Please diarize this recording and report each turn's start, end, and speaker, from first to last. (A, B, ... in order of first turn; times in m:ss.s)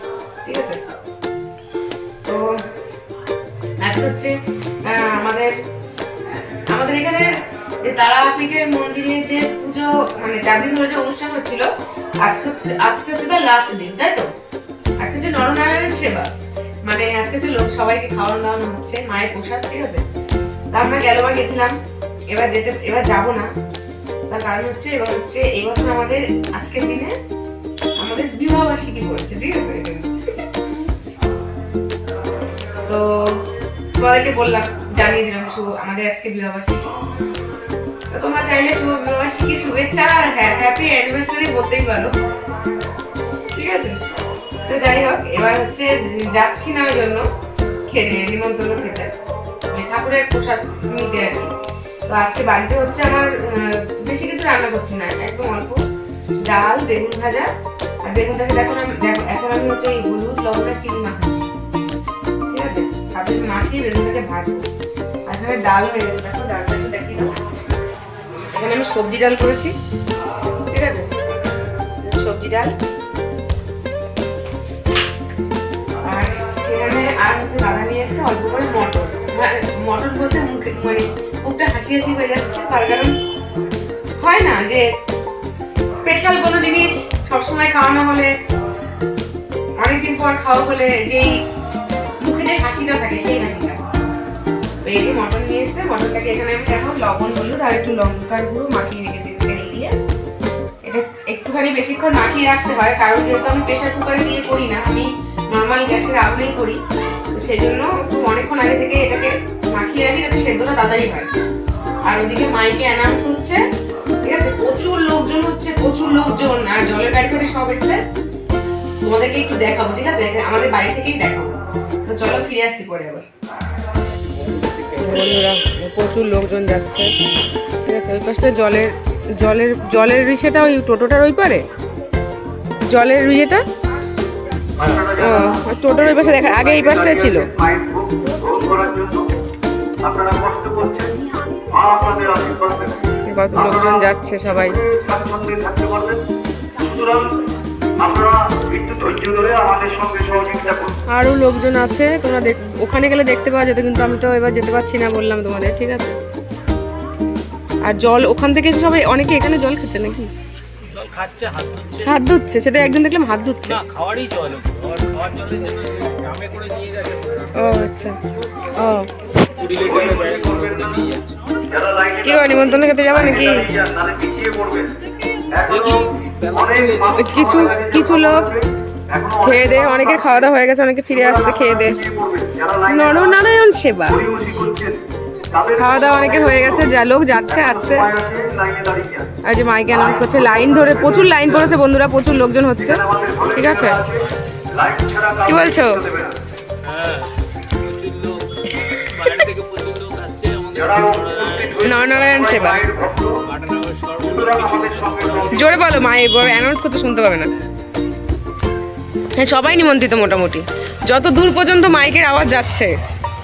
0:00.4-0:00.8 A
0:03.8-0:05.5 A
0:06.7-0:11.7 A
0:12.2-0:14.3 A
0:15.0-0:16.3 A
0:16.8-0:20.0 A
0:20.7-0:21.7 A
0:22.3-0:23.4 A
0:24.3-0:27.1 A
0:28.0-0:30.4 A
0:32.8-0:33.4 A
0:34.0-0:36.9 A
0:38.1-0:42.1 A
0:43.5-0:44.0 A
0:44.6-0:47.3 A
0:47.9-0:49.1 A
0:49.7-0:51.5 A
0:52.1-0:55.8 A
0:56.4-0:57.5 A
0:58.0-1:01.5 A
1:02.5-1:04.6 A
1:05.3-1:07.3 A
1:08.4-1:09.7 A
1:10.7-1:11.1 A
1:12.0-1:12.7 A
1:16.0-1:23.1 A
1:24.2-1:24.9 A
1:25.9-1:28.3 A
1:29.8-1:31.3 A
1:32.2-1:33.8 A
1:34.8-1:39.9 A
1:40.8-1:46.8 A
1:47.3-1:51.3 A
1:52.0-1:53.6 A
1:54.2-1:58.0 A
1:59.0-2:01.5 A
2:02.0-2:03.2 A
2:04.3-2:05.4 B
2:05.0-2:07.1 A
2:07.8-2:11.6 A
2:12.9-2:13.6 A
2:14.8-2:19.3 C
2:15.2-2:17.5 A
2:20.0-2:21.2 C
2:21.7-2:26.2 C
2:23.2-2:24.8 A
2:26.7-2:27.3 C
2:28.0-2:31.0 C
2:31.1-2:36.2 A
2:37.8-2:40.3 A
2:40.9-2:42.1 B
2:42.0-2:43.8 A
2:43.7-2:47.8 B
2:47.5-2:48.2 A
2:48.8-2:49.1 A
2:49.4-2:51.6 B
2:49.8-2:51.0 C
2:51.7-2:54.9 C
2:52.2-2:53.6 A
2:55.5-3:00.5 C
2:55.6-2:57.8 B
2:57.1-2:58.5 A
2:59.4-3:02.0 A
3:01.1-3:03.4 C
3:02.9-3:04.2 A
3:04.1-3:06.9 C
3:05.8-3:08.1 A
3:07.5-3:09.3 C
3:09.4-3:14.0 A
3:09.9-3:11.8 C
3:12.8-3:16.3 C
3:15.4-3:16.0 A
3:16.8-3:17.3 B
3:17.8-3:18.4 B
3:19.0-3:22.6 B
3:20.7-3:23.4 C
3:21.8-3:22.8 A
3:23.4-3:26.0 B
3:24.2-3:25.7 C
3:25.5-3:27.5 A
3:29.3-3:32.9 A